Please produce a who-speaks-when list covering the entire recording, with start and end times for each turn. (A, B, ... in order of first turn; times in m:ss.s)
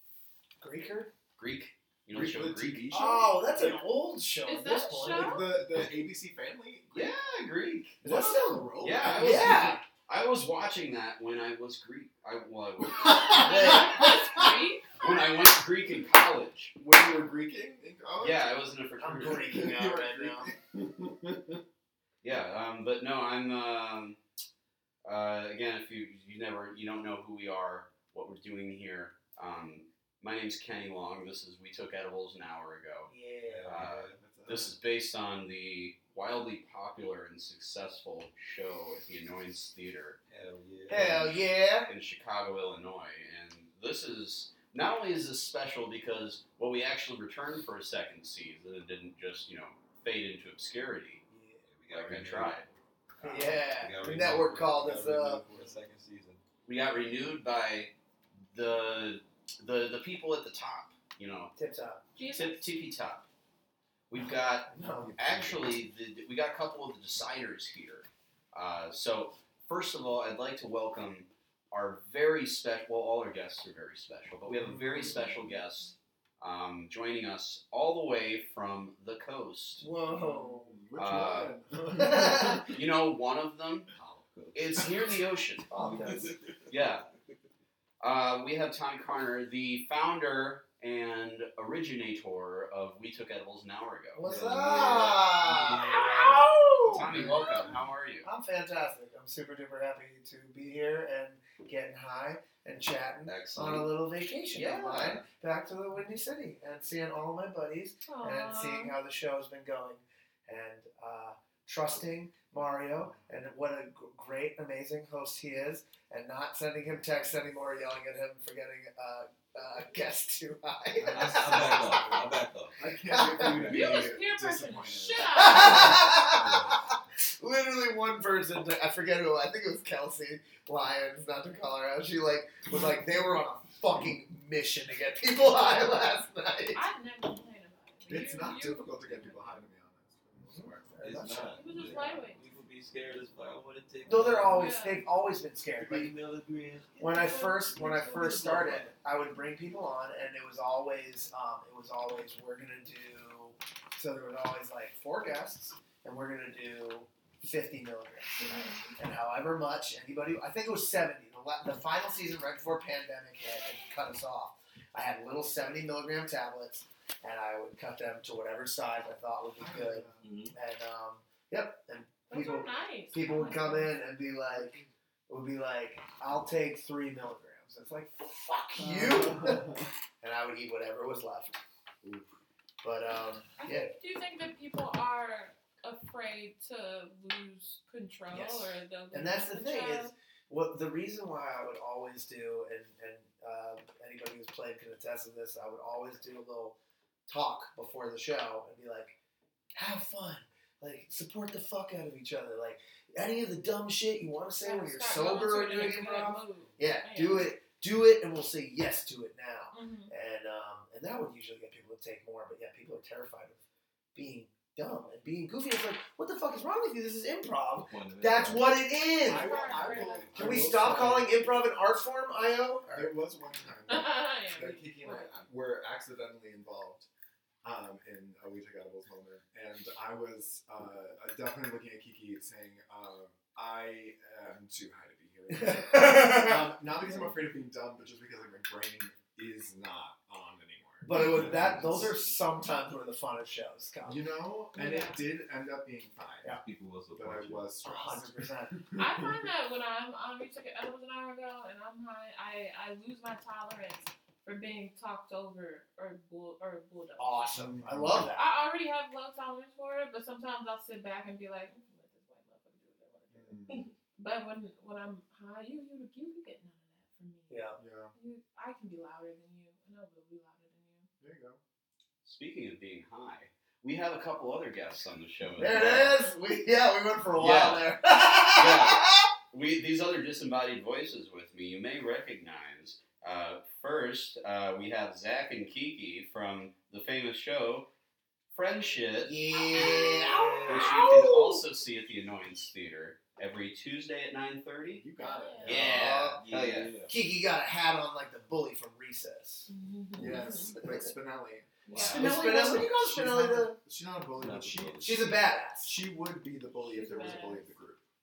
0:00.6-0:01.1 A
0:01.4-0:02.8 B
0:02.1-0:03.8 C
0:02.9-0:05.4 A
0:04.4-0:05.5 D
0:05.0-0:07.1 C
0:06.9-0:08.2 B
0:08.0-0:09.8 C
0:08.0-0:09.8 A
0:08.8-0:14.1 B
0:13.2-0:15.0 D
0:13.2-0:14.3 A
0:15.0-0:16.7 B
0:16.8-0:21.6 C
0:18.2-0:19.6 B
0:19.0-0:20.5 A
0:22.2-0:24.2 B
0:25.0-0:33.1 B
0:33.1-0:33.7 A
0:33.4-0:34.2 E
0:33.6-0:40.2 B
0:33.8-0:34.8 C
0:40.3-0:41.2 E
0:40.9-0:41.9 A
0:41.0-0:41.2 B
0:41.8-0:51.2 B
0:51.3-0:51.6 A
0:51.6-0:52.6 E
0:51.9-0:53.5 B
0:53.2-0:55.4 A
0:53.3-0:56.4 E
0:56.6-0:57.9 B
0:58.5-1:01.5 B
1:01.5-1:02.0 A
1:02.2-1:02.7 D
1:02.3-1:03.2 B
1:04.1-1:19.8 B
1:04.6-1:05.1 A
1:04.8-1:05.8 C
1:19.8-1:20.7 A
1:20.1-1:22.6 C
1:21.0-1:21.5 B
1:21.8-1:22.6 A
1:22.2-1:23.9 B
1:23.9-1:25.1 E
1:24.5-1:25.7 B
1:25.7-1:26.3 A
1:25.8-1:26.8 E
1:26.7-1:27.0 B
1:28.0-1:35.2 B
1:34.1-1:37.3 A
1:34.2-1:37.7 E
1:35.8-1:37.6 D
1:36.9-1:38.3 B
1:38.2-2:02.2 A
1:43.3-1:43.9 B
1:44.5-1:45.2 B
1:48.0-1:49.0 D
1:53.0-1:53.3 C
2:01.0-2:02.8 E
2:01.4-2:01.9 C
2:02.8-2:06.1 C
2:03.0-2:03.7 A
2:03.4-2:03.9 E
2:03.6-2:06.0 D
2:05.3-2:16.8 A
2:05.7-2:06.9 E
2:16.7-2:19.6 D
2:18.1-2:20.9 C
2:20.4-2:22.2 A
2:21.0-2:24.6 E
2:21.5-2:22.4 D
2:24.0-2:26.1 A
2:24.5-2:25.0 D
2:25.8-2:28.9 E
2:27.0-3:01.6 A
2:27.1-2:27.6 D
2:38.4-2:39.0 D
2:49.6-2:50.3 C
2:50.2-2:50.5 E
2:52.3-2:54.0 D
2:54.5-2:54.9 C
2:58.8-2:59.9 C
3:02.8-3:03.9 A
3:03.6-3:10.1 D
3:08.3-3:16.7 A
3:17.3-3:19.2 A
3:19.7-3:33.6 A
3:24.6-3:27.5 D
3:29.7-3:30.1 D
3:34.1-3:43.2 A
3:37.8-3:38.8 E
3:39.2-3:40.5 D
3:39.2-3:41.4 C
3:40.0-3:40.3 E
3:42.9-3:47.1 C
3:43.8-3:45.4 D
3:47.6-4:02.3 C
3:55.5-3:56.7 A
3:57.1-3:57.3 D
4:01.0-4:04.3 A
4:04.0-4:06.6 C
4:04.7-4:05.2 D
4:06.6-4:07.6 E
4:07.1-4:09.4 C
4:07.8-4:08.8 A
4:09.0-4:17.5 D
4:17.2-4:18.5 A
4:17.5-4:18.3 C
4:18.3-4:31.1 D
4:23.3-4:23.9 C
4:27.5-4:27.8 A
4:27.8-4:28.1 C
4:31.2-4:31.6 C
4:32.2-4:36.2 B
4:35.6-4:39.3 A
4:37.4-4:37.9 B
4:38.5-4:47.9 B
4:48.5-4:55.0 B
4:49.2-4:51.4 A
4:49.5-4:51.6 D
4:50.3-4:51.1 E
4:54.9-4:56.0 C
4:55.2-4:56.1 D
4:55.6-4:56.5 A
4:55.6-4:57.0 B
4:56.3-4:57.2 E
4:57.0-5:01.1 A
4:59.7-5:00.8 D
5:00.2-5:05.3 C
5:01.8-5:02.4 D
5:01.9-5:02.8 B
5:02.0-5:03.8 A
5:04.4-5:05.2 E
5:05.0-5:06.0 A
5:05.8-5:08.0 C
5:06.8-5:07.7 D